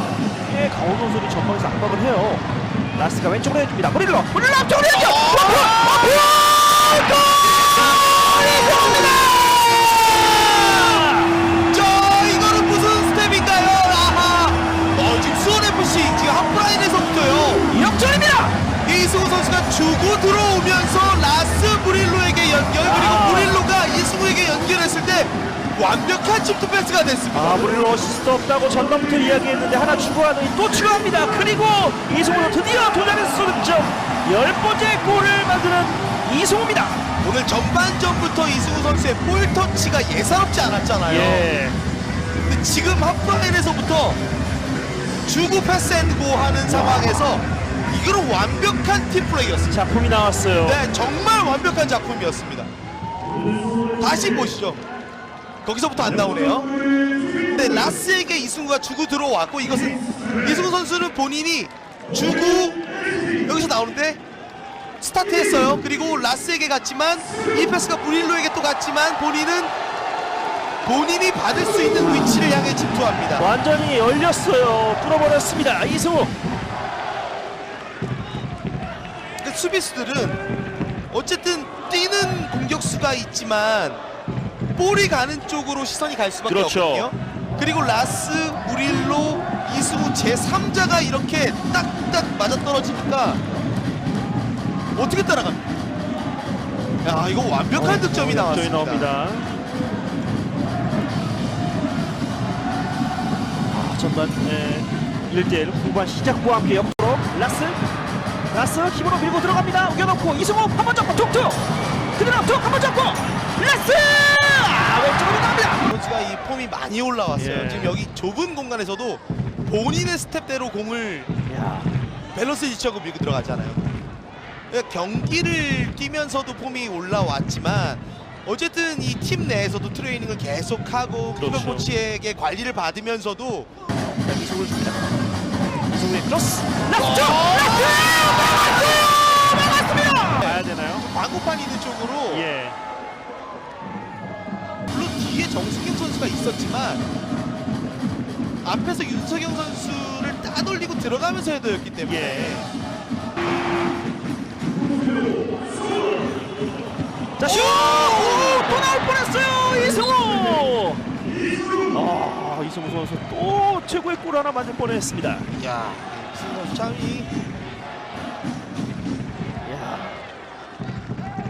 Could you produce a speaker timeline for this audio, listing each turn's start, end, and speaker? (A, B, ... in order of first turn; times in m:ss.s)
0:00.4-0:11.4 A
0:04.9-0:06.2 B
0:08.4-0:09.8 B
0:11.7-0:17.7 B
0:17.7-0:18.6 A
0:18.8-0:28.0 B
0:22.8-0:23.6 A
0:27.3-0:37.0 A
0:37.2-0:41.5 B
0:41.0-0:41.8 A
0:42.4-0:44.2 B
0:45.3-0:49.8 B
0:46.7-0:47.1 A
0:49.7-0:50.8 A
0:50.6-0:52.7 B
0:54.0-0:54.8 B
0:55.6-0:56.7 B
0:57.5-1:02.8 B
1:03.4-1:04.2 B
1:05.0-1:09.7 B
1:10.8-1:13.5 B
1:13.4-1:16.4 A
1:19.4-1:20.4 B
1:21.1-1:24.0 B
1:24.8-1:33.4 B
1:26.5-1:27.1 A
1:35.0-1:35.6 B
1:37.0-1:39.1 B
1:37.7-1:39.5 A
1:43.7-1:47.8 A
1:48.5-1:55.9 A
1:55.8-2:01.3 B
1:57.4-1:58.0 A
2:01.5-2:02.0 A
2:02.3-2:03.8 B
2:04.7-2:13.7 B
2:11.4-2:11.9 A
2:14.2-2:15.1 A
2:15.9-2:21.1 A
2:16.9-2:18.8 B
2:20.4-2:22.5 B
2:22.3-2:22.8 A
2:24.9-2:27.0 B
2:28.6-2:32.7 B
2:32.0-2:32.7 A
2:37.4-2:41.0 A
2:37.4-2:38.8 B
2:41.9-2:45.5 A
2:45.6-2:47.3 B
2:49.6-2:50.2 A